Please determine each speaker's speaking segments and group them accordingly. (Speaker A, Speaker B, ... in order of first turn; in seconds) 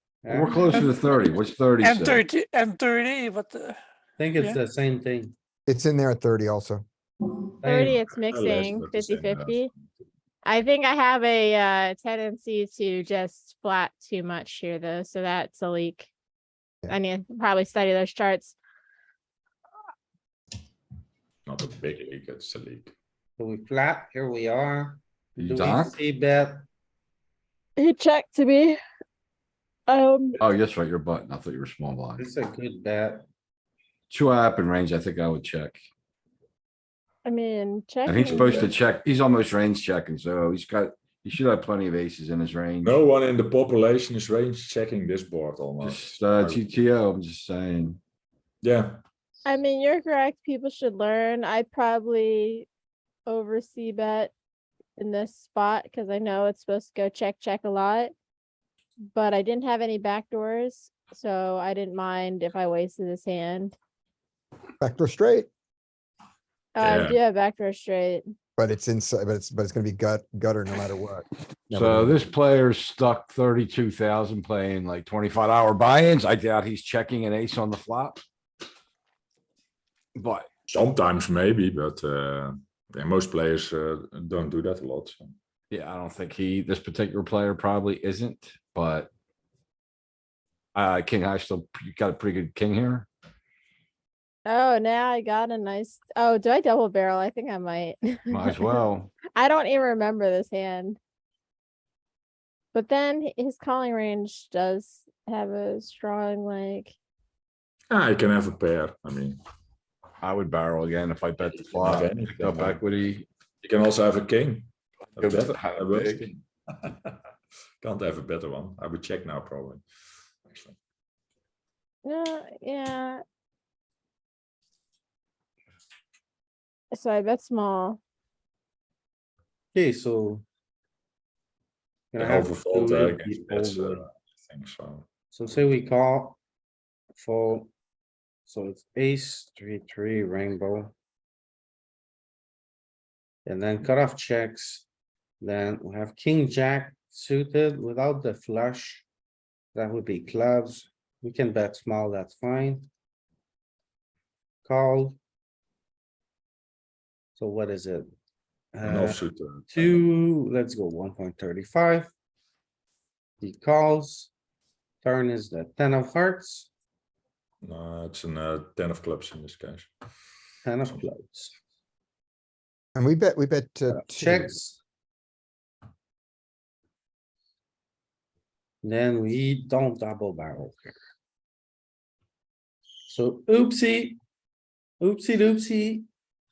Speaker A: 0.2-0.8, 4.2-5.3, 7.6-8.0, 23.4-26.6, 32.2-33.2, 129.7-130.4, 132.1-134.0, 135.3-136.4, 137.2-137.7, 138.4-140.9, 143.4-144.8, 145.4-149.1, 149.7-152.9, 154.6-155.2, 157.3-158.1, 158.7-159.2, 159.7-162.1, 163.4-164.3, 165.0-166.7, 170.6-171.6, 173.9-174.8, 178.8-180.9, 183.1-184.2, 185.0-186.1
Speaker B: 0.3-2.2, 25.4-25.9, 30.4-32.2, 34.1-35.8, 38.0-42.9, 45.8-48.0, 71.7-78.2, 80.1-80.5, 85.7-89.1, 90.7-93.1, 98.3-99.1, 110.2-113.2, 115.2-116.3
Speaker C: 1.8-3.8
Speaker D: 5.7-6.8, 64.8-65.5, 68.6-72.2, 172.9-174.5
Speaker E: 7.6-9.7, 10.4-16.1, 16.9-18.6, 27.8-28.8, 29.9-30.4, 37.2-38.7, 49.4-52.7, 53.3-54.3, 55.0-58.1, 59.1-63.7, 66.7-68.2, 94.5-98.8, 99.3-101.0, 102.7-106.9, 122.0-123.2, 126.9-128.0
Speaker F: 8.3-9.8, 21.4-22.9, 42.8-46.6, 48.6-49.0, 66.8-67.2, 80.7-85.3, 107.9-109.4, 111.7-112.8, 113.6-117.1, 117.8-119.8, 120.5-120.8, 132.2-135.0, 158.8-160.0, 167.6-169.9